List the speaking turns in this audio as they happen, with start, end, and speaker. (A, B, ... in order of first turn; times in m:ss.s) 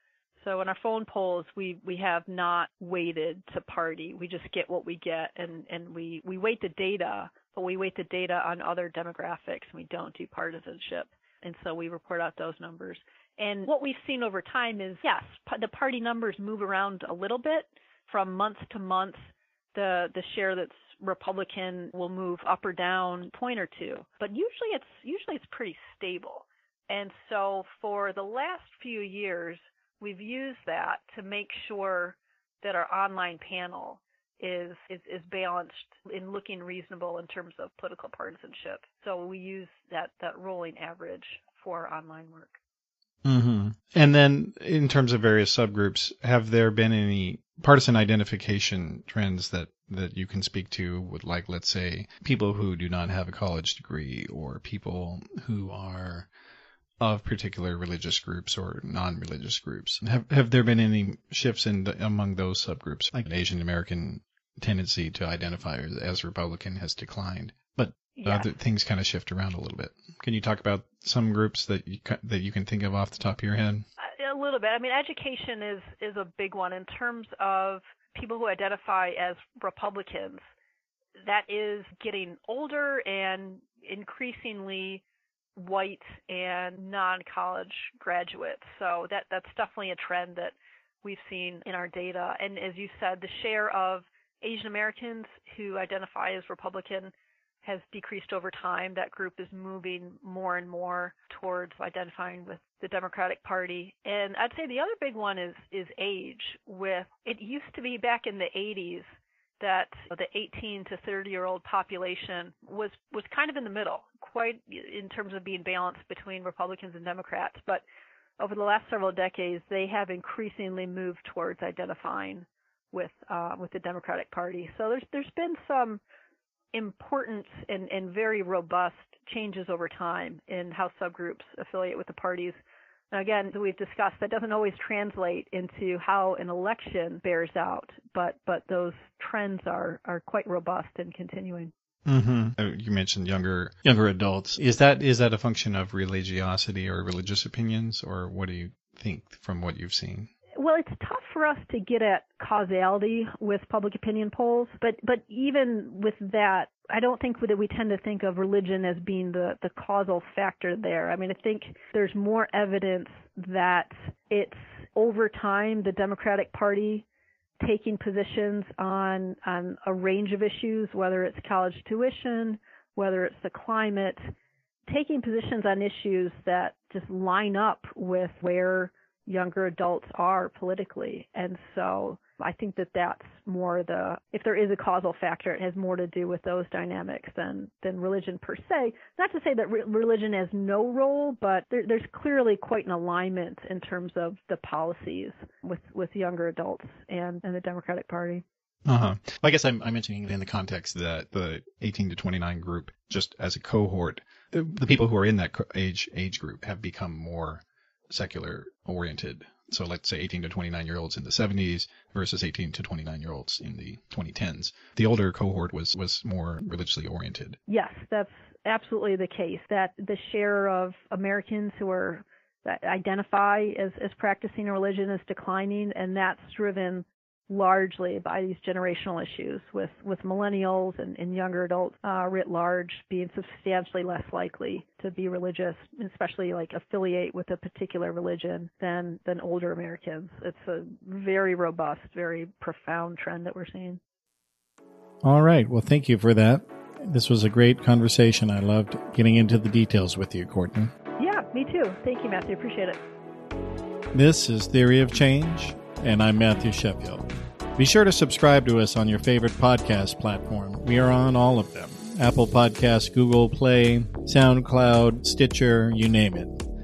0:00.4-0:42.6 A
0:43.2-0:56.3 B
0:57.0-1:13.8 B
1:08.2-1:08.5 A
1:14.0-1:20.4 A
1:21.2-1:25.0 A
1:25.6-1:57.8 A
1:58.4-2:06.0 A
2:06.7-2:12.6 A
2:13.1-2:21.7 A
2:22.0-2:30.3 B
2:23.8-2:24.5 C
2:30.6-2:47.0 A
2:47.6-2:54.3 A
2:54.9-3:18.4 A
3:18.8-3:19.5 B
3:19.4-3:20.9 C
3:20.8-3:37.6 B
3:37.7-4:04.0 A
4:05.2-4:10.9 C
4:11.2-4:13.0 A
4:14.1-4:26.6 C